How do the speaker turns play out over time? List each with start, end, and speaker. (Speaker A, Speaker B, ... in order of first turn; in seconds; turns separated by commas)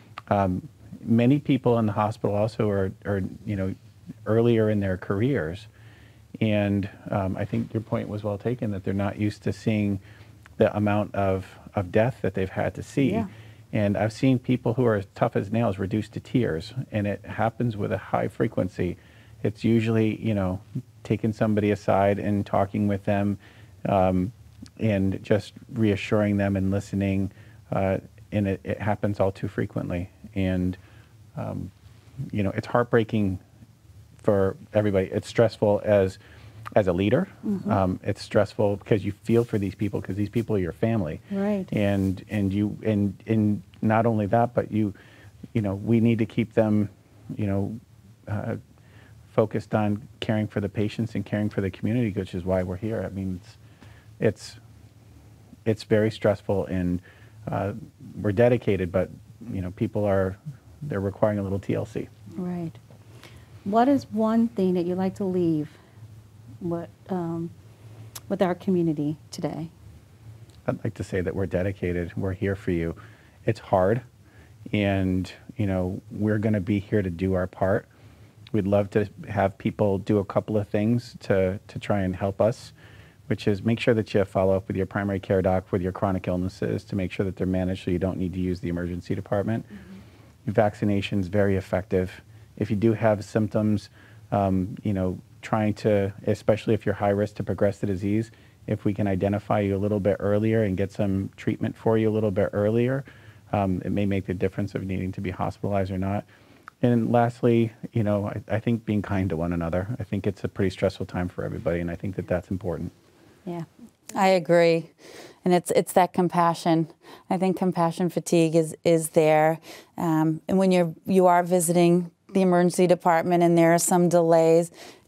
Speaker A: 0.3-5.7, Speaker A: 6.4-10.0, Speaker A: 10.6-30.8, Speaker B: 13.0-13.3, Speaker A: 31.4-31.7, Speaker A: 32.3-33.4, Speaker A: 34.2-36.2, Speaker A: 36.7-44.9, Speaker B: 37.4-37.8, Speaker B: 41.3-41.7, Speaker A: 45.5-48.6, Speaker A: 49.3-53.6, Speaker A: 54.2-54.6, Speaker A: 55.6-62.1, Speaker B: 62.4-62.8, Speaker B: 63.6-65.8, Speaker B: 66.6-67.5, Speaker B: 68.3-69.7, Speaker A: 70.7-74.0, Speaker A: 74.7-77.9, Speaker A: 78.5-82.7, Speaker A: 83.3-89.7, Speaker A: 90.5-106.2, Speaker A: 106.8-112.9, Speaker C: 114.1-114.9, Speaker C: 115.4-124.7